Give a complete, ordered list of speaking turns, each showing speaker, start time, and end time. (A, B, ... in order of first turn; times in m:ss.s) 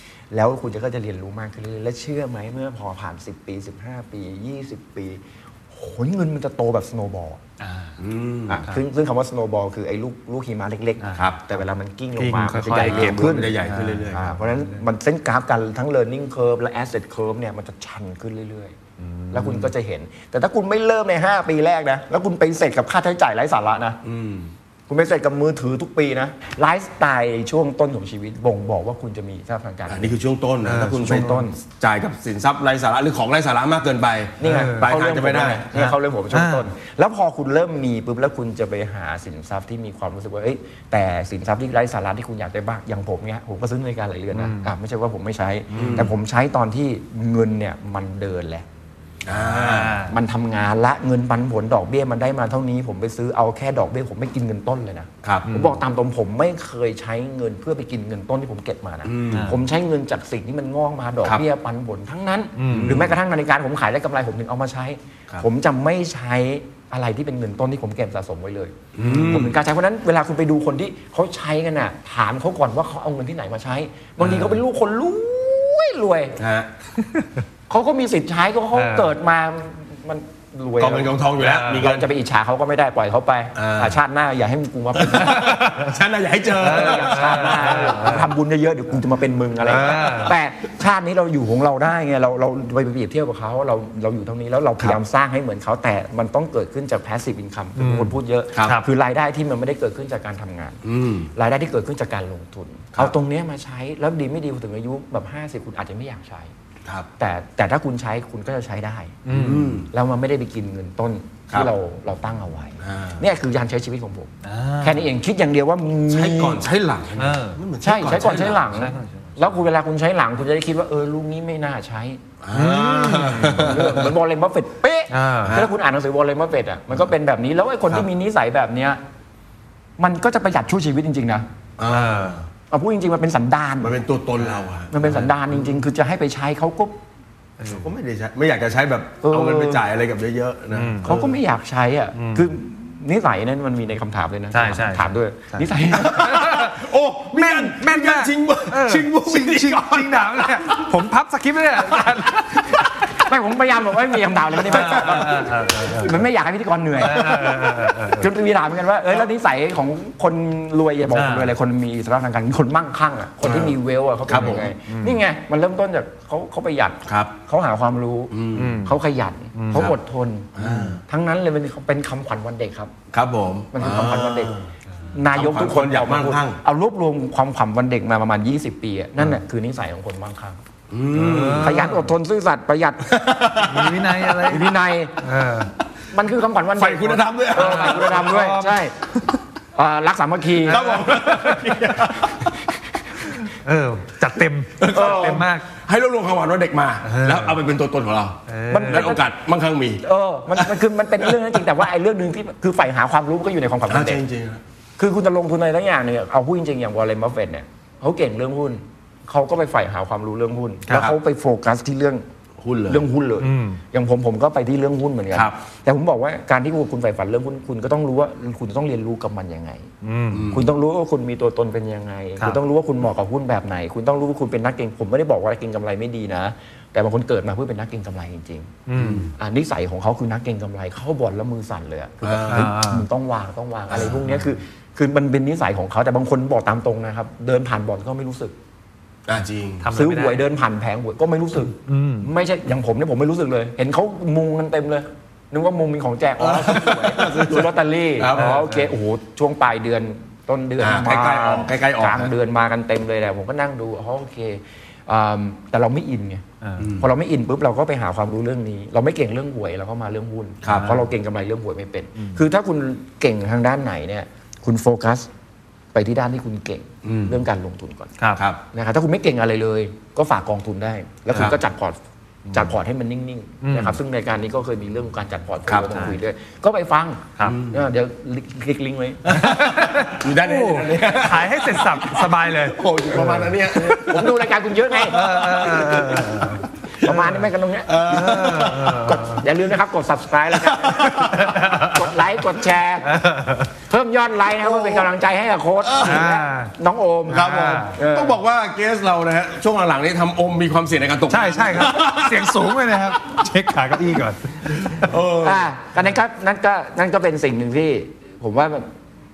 0:00.3-0:07.4 A
0:07.6-0:08.0 B
0:08.0-0:08.6 C
0:08.5-0:18.8 A
0:11.1-0:11.4 C
0:12.2-0:14.7 B
0:12.7-0:14.3 C
0:19.0-0:19.7 B
0:19.3-0:24.0 A
0:24.0-0:24.5 C
0:24.9-0:30.2 A
0:29.9-0:35.8 C
0:30.6-0:31.4 B
0:30.8-0:31.6 A
0:34.4-0:48.6 A
0:34.4-0:34.9 B
0:35.7-0:36.7 B
0:44.3-0:44.7 B
0:45.7-0:46.1 B
0:45.7-0:46.1 C
0:49.2-0:50.0 C
0:49.3-0:50.2 B
0:50.0-1:16.4 A
0:55.2-0:55.5 C
0:55.5-0:55.8 B
0:59.0-0:59.6 C
0:59.3-0:59.6 B
1:02.6-1:03.0 B
1:02.7-1:03.2 C
1:08.9-1:09.6 C
1:09.0-1:09.5 B
1:14.2-1:14.6 B
1:16.4-1:16.7 C
1:17.7-1:21.2 A
1:18.7-1:19.1 B
1:20.8-1:22.1 C
1:21.4-1:21.9 B
1:21.7-1:25.6 A
1:23.5-1:24.0 C
1:24.9-1:28.1 C
1:25.2-1:25.9 B
1:26.6-1:28.3 B
1:26.6-1:40.8 A
1:29.6-1:30.3 B
1:29.8-1:30.3 C
1:37.8-1:38.8 B
1:40.8-1:41.3 C
1:41.3-1:46.5 A
1:47.2-1:49.2 A
1:49.2-1:49.8 B
1:49.3-1:49.9 C
1:49.9-1:56.6 A
1:52.8-1:53.2 C
1:54.4-1:55.1 B
1:56.1-1:58.8 C
1:57.2-1:57.6 B
1:57.8-2:02.2 A
1:58.6-1:59.4 B
2:02.4-2:04.1 C
2:02.5-2:03.8 B
2:03.4-2:09.0 A
2:05.1-2:05.6 B
2:05.4-2:05.7 C
2:10.0-2:11.5 A
2:11.8-2:12.5 C
2:11.9-2:12.4 B
2:12.7-2:13.9 A
2:13.8-2:15.8 C
2:14.9-2:17.0 A
2:17.6-2:17.9 B
2:17.6-2:21.4 C
2:19.2-2:19.8 A
2:20.7-2:21.2 B
2:21.0-2:26.6 A
2:22.2-2:22.5 B
2:24.5-2:26.8 B
2:25.9-2:30.9 C
2:27.3-2:32.9 B
2:31.9-2:32.2 C
2:32.8-2:52.9 A
2:34.6-2:36.2 B
2:34.8-2:35.2 C
2:37.0-2:38.3 B
2:41.1-2:41.5 B
2:43.4-2:43.8 C
2:44.3-2:44.7 C
2:44.9-2:45.2 B
2:47.1-2:47.3 C
2:48.3-2:48.8 C
2:48.5-2:49.0 B
2:49.6-2:49.9 B
2:50.5-2:51.0 C
2:50.6-2:50.9 B
2:53.1-2:54.7 C
2:53.7-2:54.6 A
2:55.1-3:00.6 A
2:55.3-2:56.6 C
3:00.9-3:01.9 C
3:01.1-3:02.1 B
3:01.6-3:03.1 A
3:03.0-3:04.5 C
3:03.6-3:04.7 B
3:04.4-3:05.2 A
3:05.2-3:05.7 B
3:06.1-3:08.9 A
3:06.8-3:08.4 C
3:07.5-3:08.8 B
3:09.7-3:11.0 A
3:10.6-3:12.5 C
3:10.6-3:11.8 B
3:12.1-3:12.5 A
3:13.2-3:15.7 B
3:14.8-3:21.6 C
3:14.9-3:15.4 A
3:17.0-3:17.6 B
3:18.5-3:19.2 B
3:18.7-3:19.2 A
3:20.0-3:24.2 A
3:23.9-3:24.6 C
3:25.0-3:32.2 A
3:30.9-3:31.1 C
3:32.6-3:33.0 C
3:32.9-3:39.9 A
3:33.4-3:33.8 B
3:40.0-3:40.5 B
3:40.3-3:40.6 C
3:40.5-3:48.7 A
3:48.9-3:49.3 B
3:48.9-3:49.3 C
3:49.4-3:58.5 A
3:52.2-3:52.7 C
3:52.5-3:53.0 B
3:53.9-3:54.3 C
3:59.2-3:59.9 C
3:59.8-4:00.4 B
3:59.9-4:16.4 A
4:01.7-4:02.3 B
4:06.4-4:08.7 C
4:08.3-4:08.9 B
4:10.8-4:12.3 C
4:16.6-4:16.9 B
4:16.8-4:17.0 C
4:17.0-4:25.3 A
4:20.6-4:20.9 C
4:20.7-4:21.1 B
4:22.2-4:22.4 B
4:25.9-4:28.1 A
4:27.0-4:27.4 C
4:28.4-4:28.6 C
4:28.7-4:39.4 A
4:31.3-4:31.6 C
4:33.6-4:34.0 B
4:35.7-4:36.0 C
4:37.4-4:37.8 C
4:39.2-4:49.2 C
4:39.3-4:43.6 B
4:43.2-4:45.3 A
4:45.1-4:46.7 B
4:46.9-4:53.2 A
4:48.1-4:49.4 B
4:50.5-4:51.7 C
4:51.2-4:52.0 B
4:53.0-4:53.7 B
4:53.9-4:58.4 A
4:54.6-4:55.1 C
4:55.8-4:56.3 C
4:56.0-4:56.7 B
4:57.3-5:02.9 C
4:57.3-4:57.9 B
5:01.3-5:05.1 B
5:04.7-5:05.7 C
5:05.4-5:08.9 A